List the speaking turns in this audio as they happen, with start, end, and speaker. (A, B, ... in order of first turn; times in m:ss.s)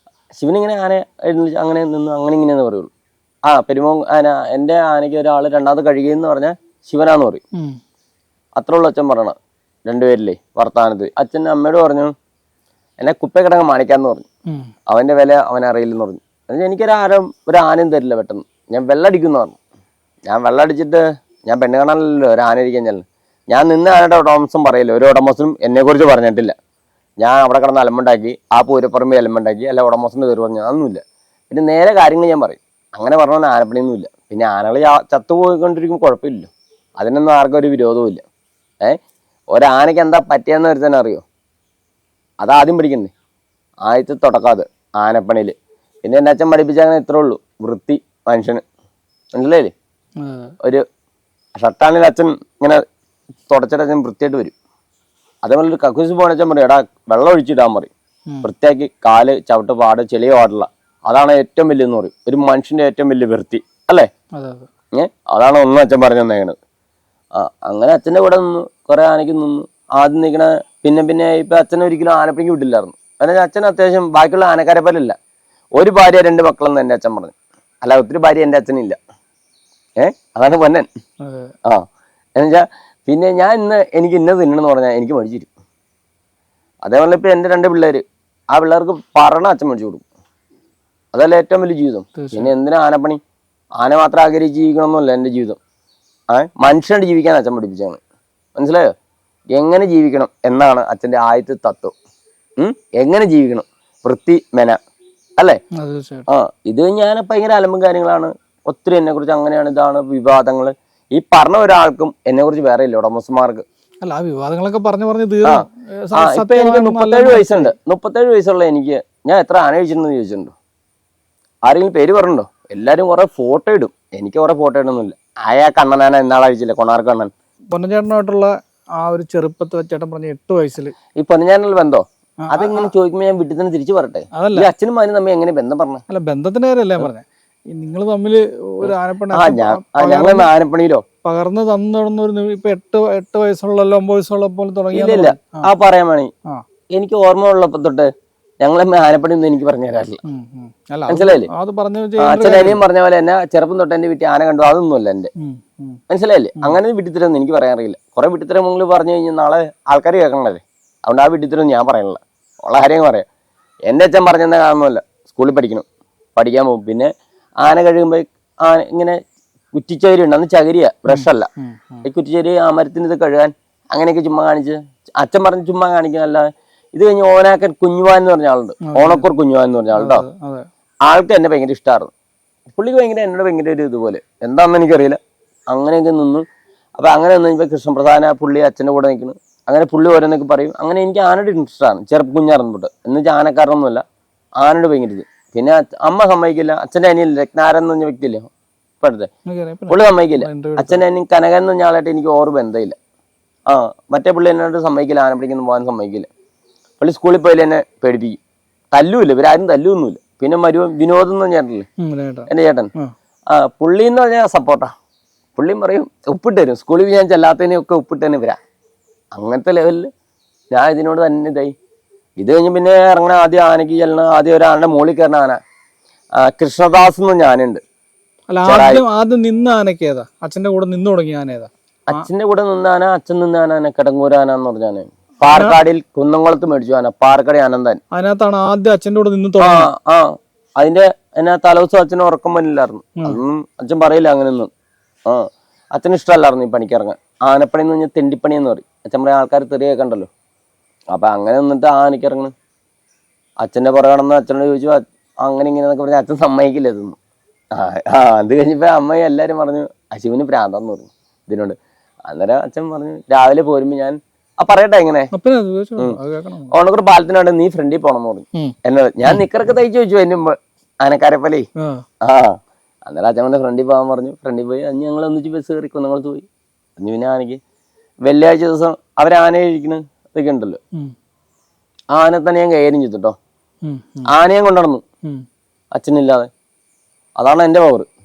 0:00.4-0:02.9 A
0:03.5-0:07.4 A
0:08.6-0:12.1 A
0:13.0-0:14.3 A
0:14.9-0:19.6 A
0:20.3-0:26.6 A
0:27.2-0:38.2 A
0:39.5-0:41.2 A
0:42.4-0:43.1 A
0:43.9-0:48.6 A
0:49.3-0:49.7 A
0:50.2-0:50.5 B
0:51.6-0:52.8 A
0:53.5-0:54.5 A
0:55.4-0:57.9 A
0:58.4-1:04.1 A
1:04.4-1:04.7 B
1:05.0-1:06.6 A
1:07.4-1:15.2 A
1:15.8-1:19.0 A
1:20.0-1:20.9 A
1:21.2-1:21.5 B
1:22.4-1:25.5 A
1:26.8-1:30.0 A
1:31.1-1:33.2 A
1:32.2-1:32.5 B
1:33.8-1:35.6 A
1:36.3-1:38.0 A
1:38.6-1:38.9 A
1:39.5-1:42.0 A
1:42.6-1:44.8 A
1:45.8-1:46.3 B
1:46.3-1:53.6 A
1:54.0-1:57.8 B
1:55.4-2:00.5 A
2:01.6-2:07.3 A
2:07.7-2:11.0 B
2:11.2-2:16.0 A
2:12.4-2:12.9 B
2:14.4-2:14.7 B
2:16.1-2:20.5 B
2:18.8-2:21.0 A
2:21.2-2:25.6 B
2:24.9-2:26.3 A
2:26.9-2:28.1 A
2:28.6-2:30.2 A
2:30.2-2:32.8 B
2:31.1-2:31.5 A
2:32.2-2:35.3 A
2:35.4-2:36.0 B
2:36.1-2:43.3 A
2:43.9-2:47.1 A
2:47.6-2:49.2 A
2:49.7-2:51.5 A
2:51.1-2:52.1 B
2:52.0-3:00.2 A
2:58.9-2:59.2 B
2:59.9-3:00.7 B
3:01.1-3:02.1 A
3:02.7-3:05.2 A
3:05.7-3:06.4 A
3:07.0-3:14.0 A
3:14.6-3:19.3 A
3:19.5-3:21.0 B
3:19.9-3:23.0 A
3:23.7-3:26.3 A
3:27.0-3:28.4 A
3:28.9-3:31.9 A
3:32.0-3:33.1 B
3:32.5-3:32.9 A
3:33.5-3:34.9 A
3:35.6-3:38.6 A
3:39.4-3:40.1 A
3:40.7-3:41.7 A
3:42.4-3:45.6 A
3:46.4-3:47.8 A
3:48.5-3:52.3 B
3:48.6-3:49.0 A
3:52.1-3:58.0 A
3:55.4-3:55.8 B
3:58.1-3:59.9 B
3:59.6-4:04.7 A
4:05.3-4:10.3 A
4:11.1-4:12.5 A
4:13.6-4:17.2 A
4:17.7-4:25.3 A
4:25.3-4:26.7 B
4:26.7-4:31.7 A
4:28.6-4:29.4 B
4:32.2-4:36.5 A
4:37.0-4:37.6 A
4:38.2-4:40.8 A
4:42.1-4:43.4 A
4:43.8-4:44.3 B
4:44.3-4:45.0 A
4:46.0-4:46.5 A
4:47.4-4:48.1 A